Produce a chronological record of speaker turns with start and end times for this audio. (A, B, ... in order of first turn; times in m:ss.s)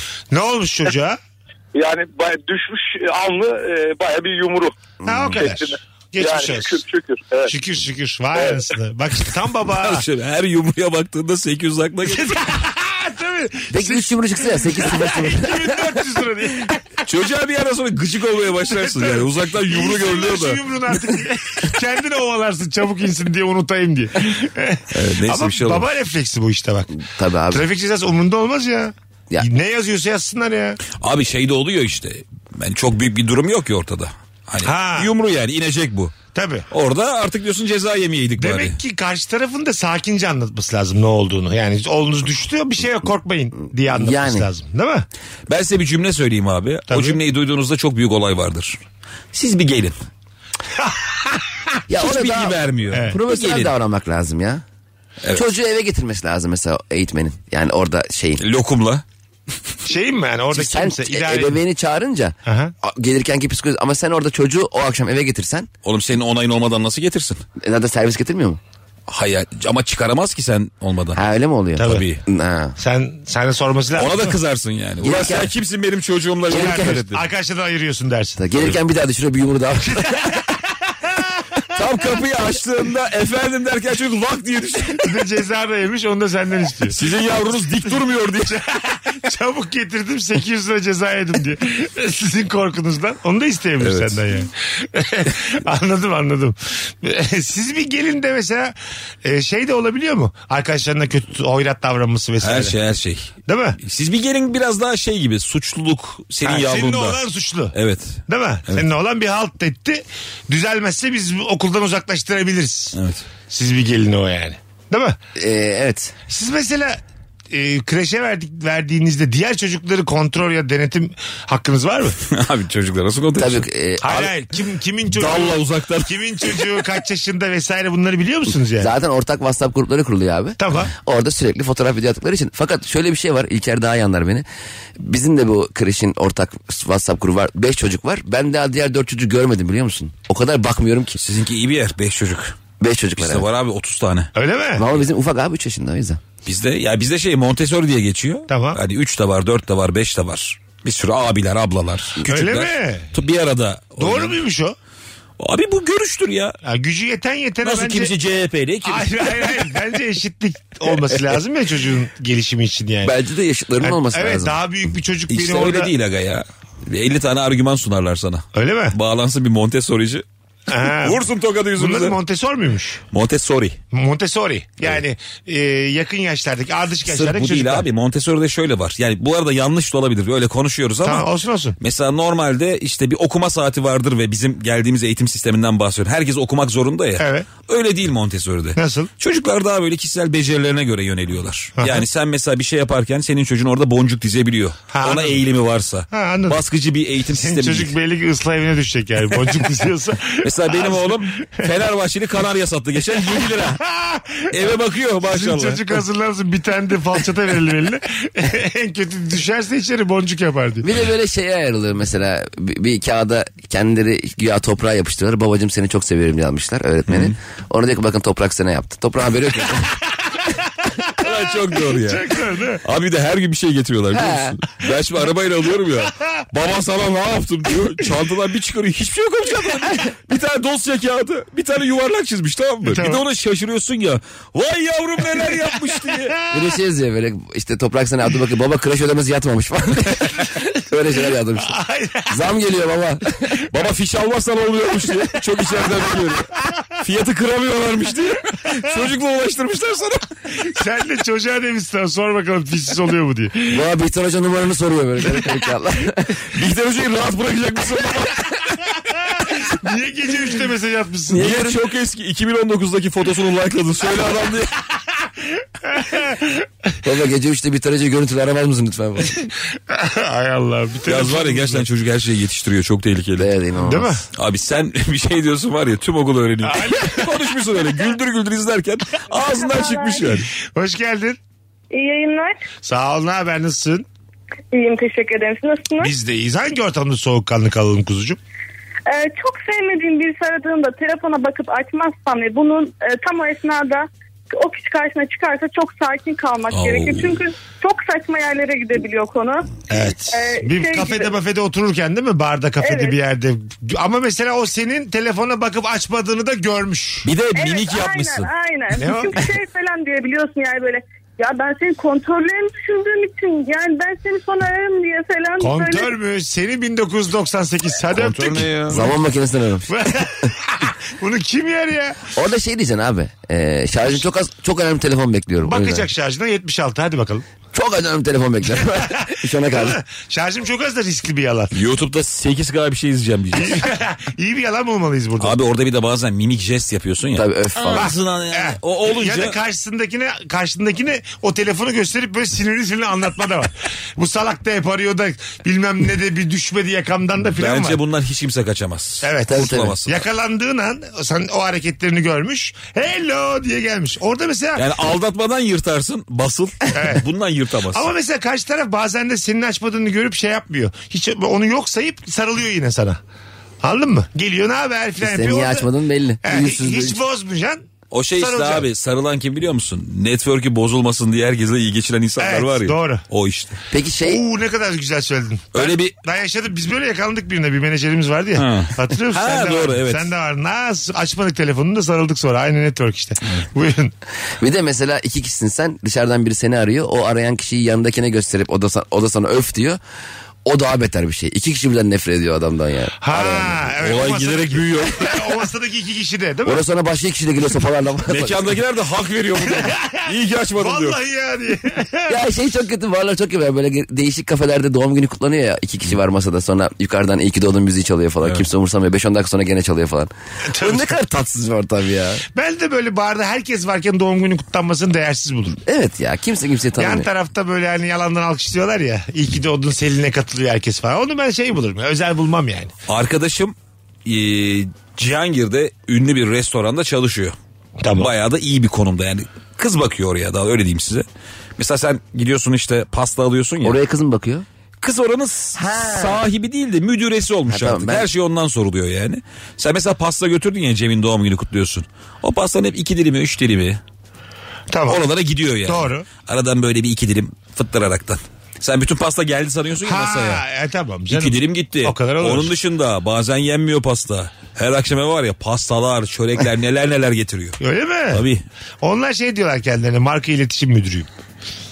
0:00.3-0:01.2 A
0:01.7-0:04.7 B
0:05.0-0:05.4 C
0:05.0-0:06.8 A
0:05.3-0:07.5 B
0:07.5-0:10.0 A
0:08.3-0:08.7 B
0:09.6-0:12.4 D
0:12.0-0:17.0 A
0:13.7-0:15.8 C
0:17.0-0:20.6 D
0:18.6-0:26.9 A
0:24.9-0:25.9 D
0:27.0-0:27.6 C
0:27.5-0:30.8 A
0:30.9-0:36.2 D
0:34.6-0:35.1 A
0:36.3-0:36.6 A
0:36.7-0:38.8 D
0:38.4-0:45.1 A
0:43.9-0:44.5 C
0:45.5-0:48.8 D
0:46.9-0:47.2 A
0:49.3-0:50.0 D
0:50.7-0:51.6 A
0:51.9-0:54.6 C
0:51.9-0:53.7 D
0:52.9-0:53.2 A
0:55.3-0:58.4 C
0:58.4-0:59.0 D
0:59.8-1:01.6 A
1:00.5-1:05.7 C
1:02.4-1:02.7 A
1:05.8-1:07.4 D
1:07.6-1:08.6 C
1:09.1-1:11.2 D
1:11.1-1:12.8 C
1:11.8-1:12.1 A
1:11.8-1:12.2 D
1:12.8-1:14.4 A
1:13.9-1:17.2 D
1:15.0-1:15.5 C
1:16.5-1:17.0 C
1:16.5-1:18.4 A
1:18.4-1:20.2 C
1:20.0-1:21.2 A
1:21.7-1:25.2 D
1:25.0-1:42.8 A
1:26.9-1:28.6 D
1:33.8-1:34.2 D
1:42.4-1:47.2 D
1:43.4-1:43.8 A
1:46.4-1:55.2 A
1:47.7-1:48.8 D
1:52.9-1:53.2 D
1:55.4-1:56.1 C
1:56.3-2:02.2 A
2:02.2-2:03.7 D
2:03.4-2:04.3 C
2:04.0-2:08.9 A
2:05.1-2:06.8 D
2:08.8-2:14.4 C
2:10.6-2:10.9 A
2:15.0-2:21.2 C
2:21.2-2:22.6 D
2:22.8-2:23.5 C
2:23.2-2:24.3 D
2:24.3-2:24.8 A
2:24.8-2:26.2 C
2:26.4-2:34.4 D
2:28.5-2:28.8 A
2:32.2-2:33.1 A
2:34.0-2:34.8 A
2:35.4-2:36.6 D
2:36.6-2:38.1 A
2:37.6-2:39.7 D
2:38.8-2:43.2 A
2:43.0-2:44.6 C
2:43.8-2:45.9 A
2:45.3-2:50.2 D
2:48.5-2:49.0 A
2:50.7-2:53.0 A
2:50.8-2:52.2 D
2:53.1-2:53.8 D
2:53.9-2:57.9 A
2:57.0-3:01.3 D
3:01.0-3:01.8 A
3:01.8-3:17.9 D
3:07.2-3:07.5 A
3:08.7-3:09.1 A
3:11.8-3:12.0 A
3:14.9-3:15.4 A
3:16.1-3:16.6 A
3:17.3-3:21.7 A
3:20.4-3:23.8 D
3:23.1-3:30.9 A
3:24.5-3:26.0 D
3:30.8-3:40.0 C
3:37.1-3:37.3 D
3:40.8-3:42.8 A
3:41.1-3:56.4 D
3:44.1-3:44.6 C
3:52.8-3:53.2 A
3:55.2-3:56.7 A
3:56.5-4:03.6 C
4:01.6-4:02.4 A
4:03.7-4:10.3 D
4:10.6-4:13.8 A
4:13.7-4:16.4 C
4:16.5-4:18.6 D
4:19.0-4:21.6 A
4:21.3-4:21.8 C
4:21.3-4:24.8 D
4:25.8-4:26.6 A
4:27.0-4:29.4 C
4:29.9-4:31.8 A
4:31.0-4:33.5 D
4:33.4-4:34.2 C
4:33.8-4:34.2 A
4:34.3-4:40.5 D
4:36.6-4:37.5 A
4:39.5-4:40.2 E
4:40.5-4:41.4 A
4:41.9-4:42.6 E
4:42.8-4:44.1 A
4:44.7-4:46.1 E
4:46.0-4:48.4 A
4:49.1-4:59.7 E
4:56.7-4:57.4 D
4:59.9-5:07.3 A
5:00.3-5:01.3 E
5:02.8-5:03.2 E
5:07.2-5:08.5 D
5:07.5-5:16.1 E
5:08.9-5:09.5 A
5:15.6-5:19.1 A
5:18.1-5:19.1 D
5:18.2-5:19.9 C
5:19.9-5:22.2 A
5:22.4-5:26.1 C
5:25.6-5:27.4 A
5:27.7-5:30.0 C
5:28.8-5:31.7 A
5:31.7-5:33.9 D
5:33.5-5:35.6 A
5:35.4-5:39.6 D
5:37.3-5:38.1 C
5:37.9-5:48.0 A
5:47.5-5:50.2 D
5:49.2-5:54.9 A
5:49.5-5:50.0 C
5:54.8-5:58.1 D
5:56.9-5:57.3 A
5:57.9-6:03.2 A
6:03.8-6:05.9 A
6:05.2-6:07.2 C
6:06.4-6:08.9 A
6:08.1-6:13.8 D
6:12.4-6:13.3 A
6:13.9-6:14.4 C
6:14.2-6:24.1 A
6:15.7-6:16.1 D
6:18.5-6:20.3 D
6:24.6-6:30.0 C
6:30.6-6:33.9 C
6:33.2-6:36.8 A
6:34.0-6:35.5 D
6:36.6-6:38.7 C
6:38.3-6:41.2 D
6:39.6-6:42.4 A
6:42.3-6:52.4 C
6:50.7-6:51.2 A
6:52.5-6:55.8 A
6:55.8-6:57.3 C
6:57.0-7:02.9 A
7:03.1-7:07.6 D
7:08.0-7:08.3 A
7:08.1-7:14.0 D
7:13.8-7:14.6 C
7:15.0-7:24.0 D
7:15.7-7:16.4 C
7:17.7-7:18.3 C
7:24.9-7:25.2 A
7:25.0-7:30.6 D
7:25.8-7:26.2 A
7:30.0-7:32.7 A
7:31.3-7:38.6 D
7:37.8-7:38.5 A
7:39.0-7:41.3 A